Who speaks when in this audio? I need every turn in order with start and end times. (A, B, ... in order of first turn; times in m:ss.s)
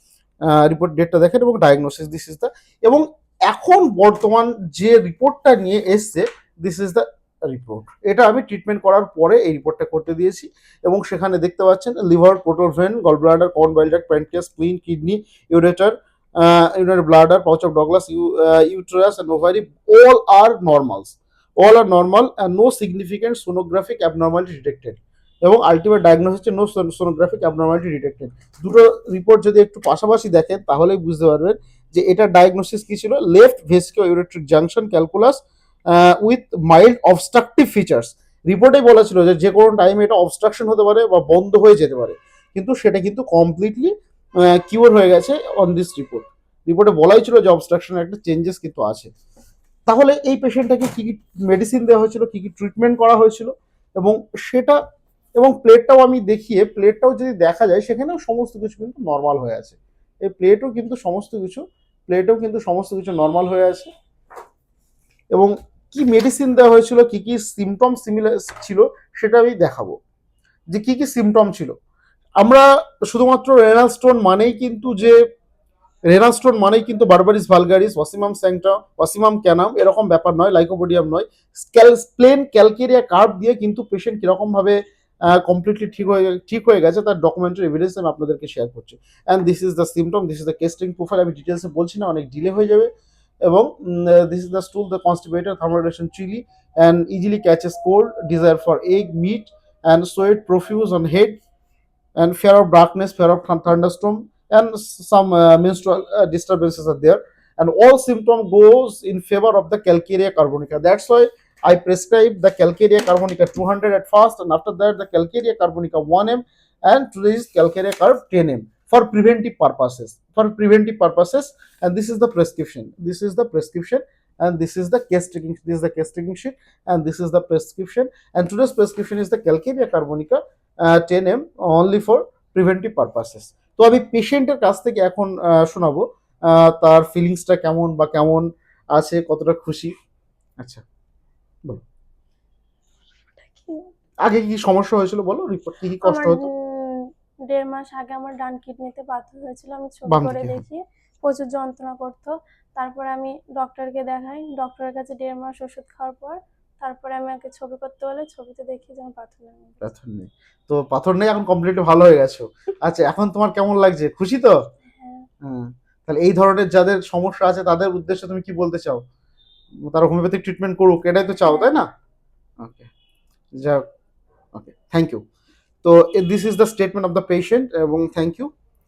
0:00.4-0:49.1 A
0:49.9-0:54.8 A
0:55.4-1:03.9 A
1:05.3-1:10.0 A
1:10.7-1:11.8 A
1:12.4-1:15.2 A
1:16.1-1:32.9 A
1:33.4-1:41.4 A
1:42.2-2:19.9 A
2:20.6-2:20.8 A
2:23.4-2:23.9 B
2:24.2-2:26.4 A
2:26.0-2:39.8 B
2:30.1-2:30.6 A
2:39.8-2:44.6 A
2:45.0-2:45.3 B
2:45.4-2:49.0 A
2:49.8-2:51.9 A
2:51.5-2:51.7 B
2:52.6-2:52.9 A
2:53.5-2:53.8 A
2:54.5-2:55.2 A
2:55.8-2:58.5 A